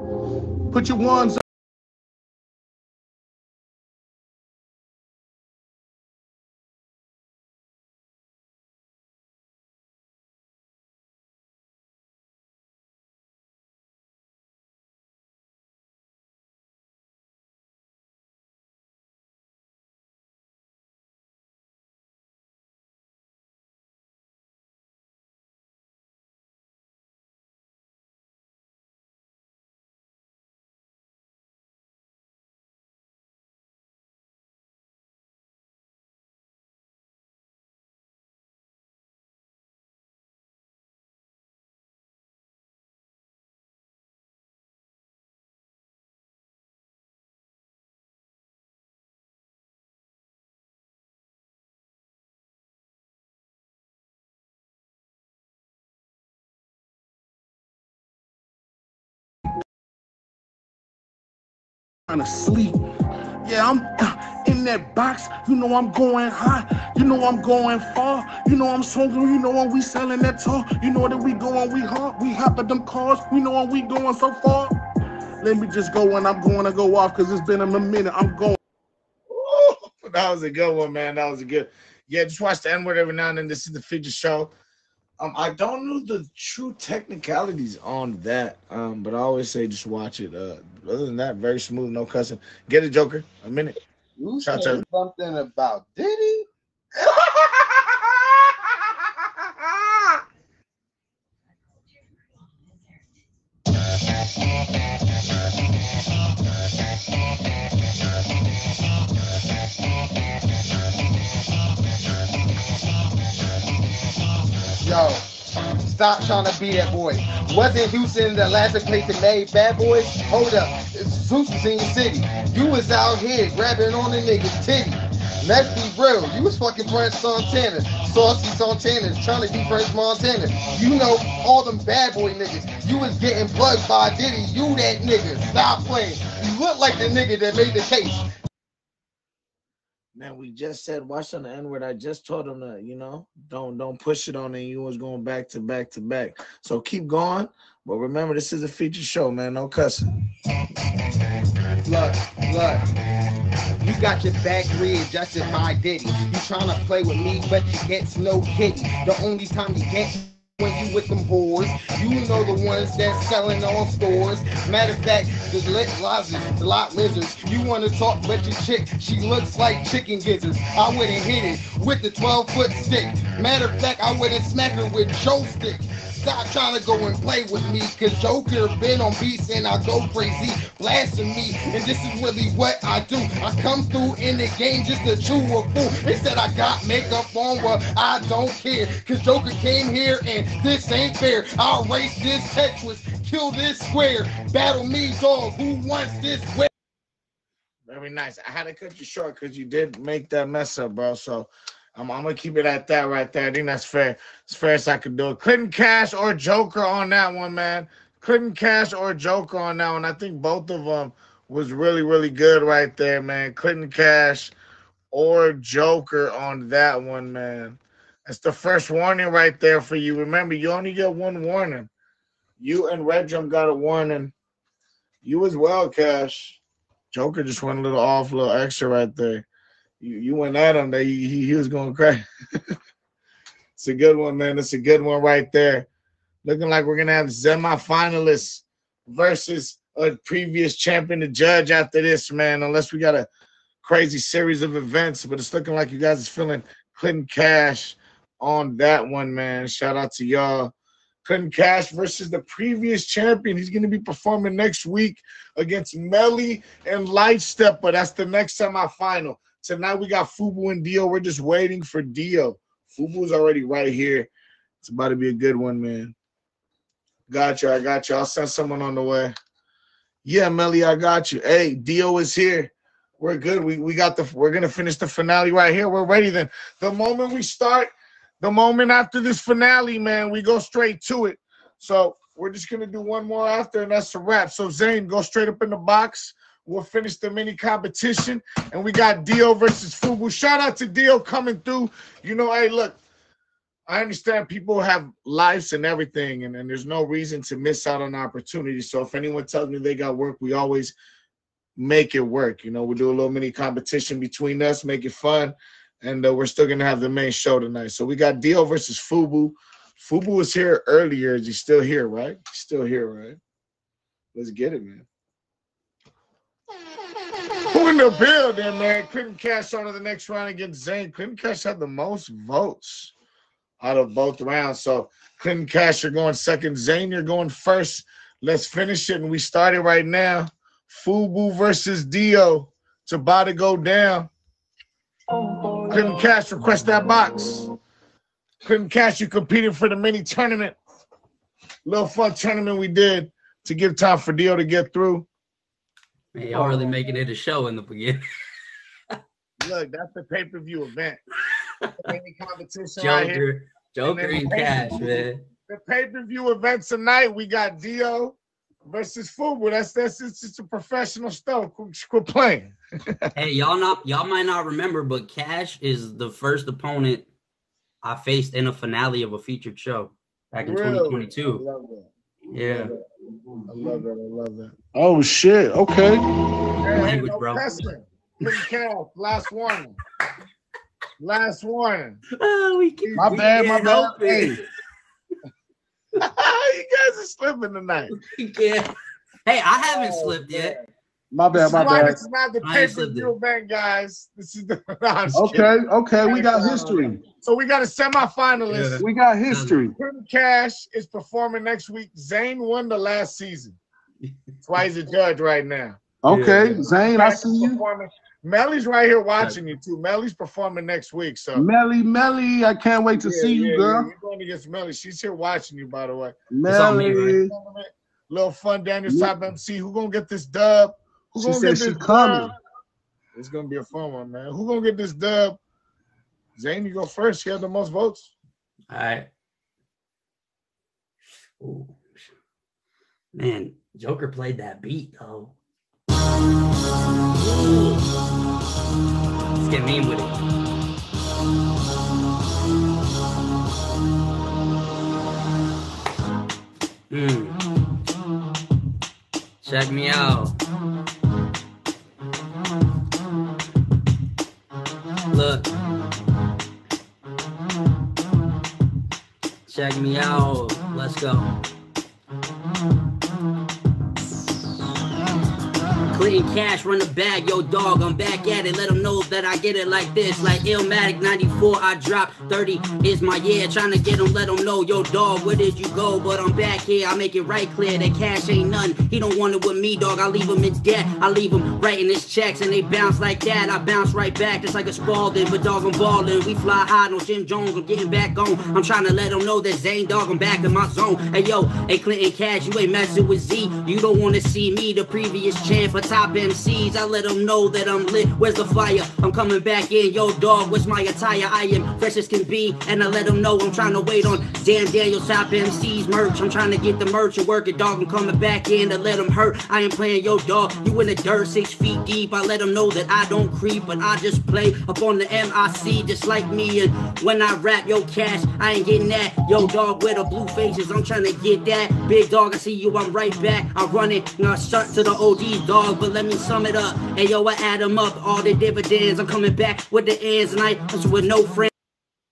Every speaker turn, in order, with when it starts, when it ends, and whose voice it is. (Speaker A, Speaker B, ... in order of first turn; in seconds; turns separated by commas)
Speaker A: 0.7-1.4, Speaker A: 62.1-62.8, Speaker A: 63.4-74.7, Speaker A: 75.4-78.6, Speaker B: 79.3-84.5, Speaker B: 85.2-93.8, Speaker C: 94.2-96.5, Speaker B: 94.5-94.8, Speaker C: 114.8-115.3, Speaker C: 115.8-138.3, Speaker B: 140.2-150.1, Speaker C: 151.8-152.9, Speaker C: 153.8-196.7, Speaker B: 197.9-214.5, Speaker B: 215.1-221.9, Speaker B: 222.6-224.3, Speaker B: 225.2-226.6, Speaker B: 227.1-229.5, Speaker B: 230.0-232.2, Speaker B: 233.8-235.9, Speaker B: 236.4-243.3, Speaker B: 243.8-250.7, Speaker B: 251.2-264.3, Speaker B: 264.8-266.1, Speaker B: 267.3-269.3, Speaker B: 270.2-293.0, Speaker B: 293.9-300.9, Speaker B: 301.8-313.4, Speaker B: 314.4-315.1, Speaker B: 317.7-323.1, Speaker B: 323.8-334.3, Speaker B: 335.9-337.7, Speaker B: 338.6-340.8, Speaker B: 341.9-345.3, Speaker D: 346.4-348.2, Speaker B: 346.5-346.9, Speaker B: 349.6-351.2, Speaker B: 352.0-353.4, Speaker D: 353.0-355.4, Speaker B: 354.0-362.8, Speaker D: 363.4-367.3, Speaker D: 368.0-371.6, Speaker B: 370.6-373.0, Speaker D: 372.5-372.9, Speaker B: 373.7-374.8, Speaker A: 374.9-376.2, Speaker B: 376.8-380.0, Speaker D: 376.9-377.8, Speaker B: 381.2-382.2, Speaker D: 382.4-384.6, Speaker A: 383.1-384.6, Speaker B: 383.1-384.4, Speaker B: 386.2-388.1, Speaker D: 388.1-388.9, Speaker D: 389.4-390.8, Speaker B: 389.8-390.9, Speaker A: 391.3-392.2, Speaker B: 391.5-399.0, Speaker D: 391.8-392.1, Speaker D: 392.6-393.3, Speaker A: 395.3-397.2, Speaker D: 398.7-399.8, Speaker A: 399.0-399.9, Speaker B: 399.9-403.8, Speaker B: 404.6-406.0, Speaker A: 406.2-407.8, Speaker D: 406.3-406.8, Speaker B: 406.7-411.7, Speaker A: 411.5-414.1, Speaker B: 413.2-422.6, Speaker A: 416.5-417.5, Speaker D: 416.7-417.4, Speaker A: 421.4-422.6, Speaker B: 423.4-425.6, Speaker B: 426.6-428.3, Speaker D: 428.9-429.3, Speaker D: 431.6-432.3, Speaker D: 433.4-435.6, Speaker D: 437.4-438.0, Speaker D: 439.6-440.4, Speaker D: 447.1-447.6, Speaker D: 449.6-450.6, Speaker D: 455.3-455.7, Speaker D: 459.7-461.5, Speaker D: 466.1-531.7